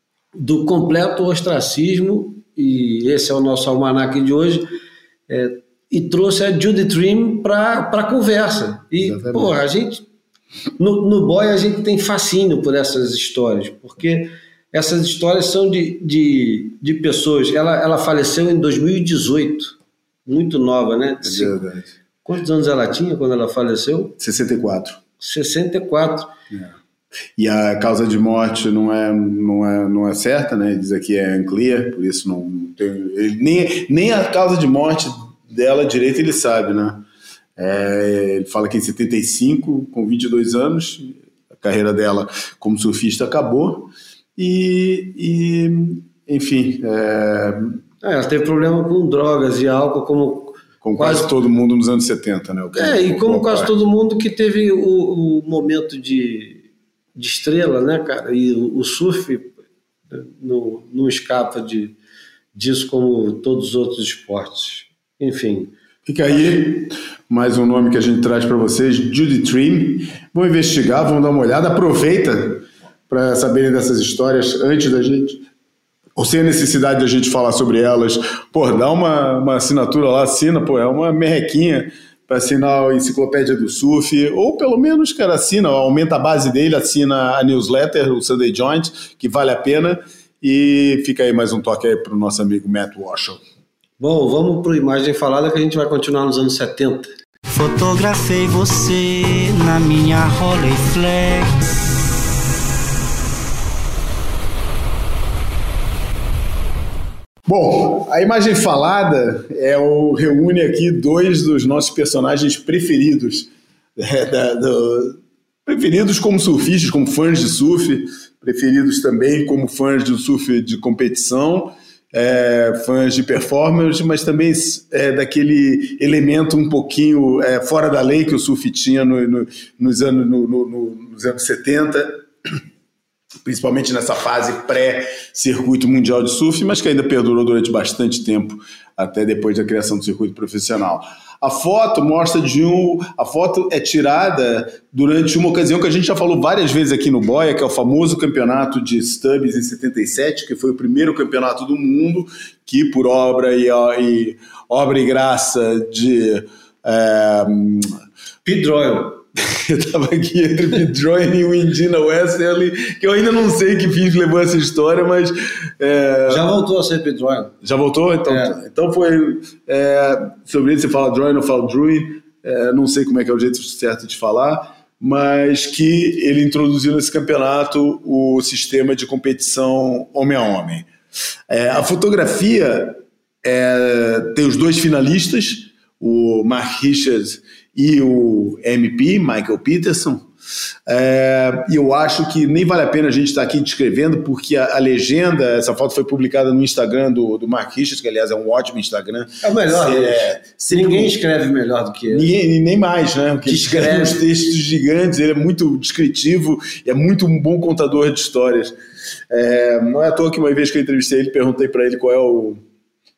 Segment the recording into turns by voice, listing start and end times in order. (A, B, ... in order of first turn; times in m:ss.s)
0:00.3-0:04.7 A
0:05.3-0:10.0 A
0:09.0-0:09.5 B
0:10.8-0:21.6 A
0:21.2-0:21.9 B
0:22.2-0:24.1 A
0:24.2-0:25.0 B
0:25.2-0:26.3 A
0:27.4-0:47.8 B
0:48.0-0:51.3 A
0:50.8-0:53.7 B
0:52.7-0:59.5 A
1:00.1-1:01.9 A
1:02.5-1:05.7 A
1:06.0-1:15.4 B
1:16.2-1:33.4 B
1:34.0-1:37.1 A
1:37.5-1:41.6 C
1:47.4-2:12.2 B
2:13.4-2:37.9 B
2:38.4-2:39.2 A
2:39.4-2:46.5 B
2:46.3-2:47.5 A
2:47.6-3:00.9 B
2:48.3-2:48.5 A
3:01.5-3:10.3 B
3:10.9-3:21.2 B
3:19.4-3:22.3 A
3:22.1-3:28.8 B
3:23.4-3:24.2 A
3:29.3-3:32.6 B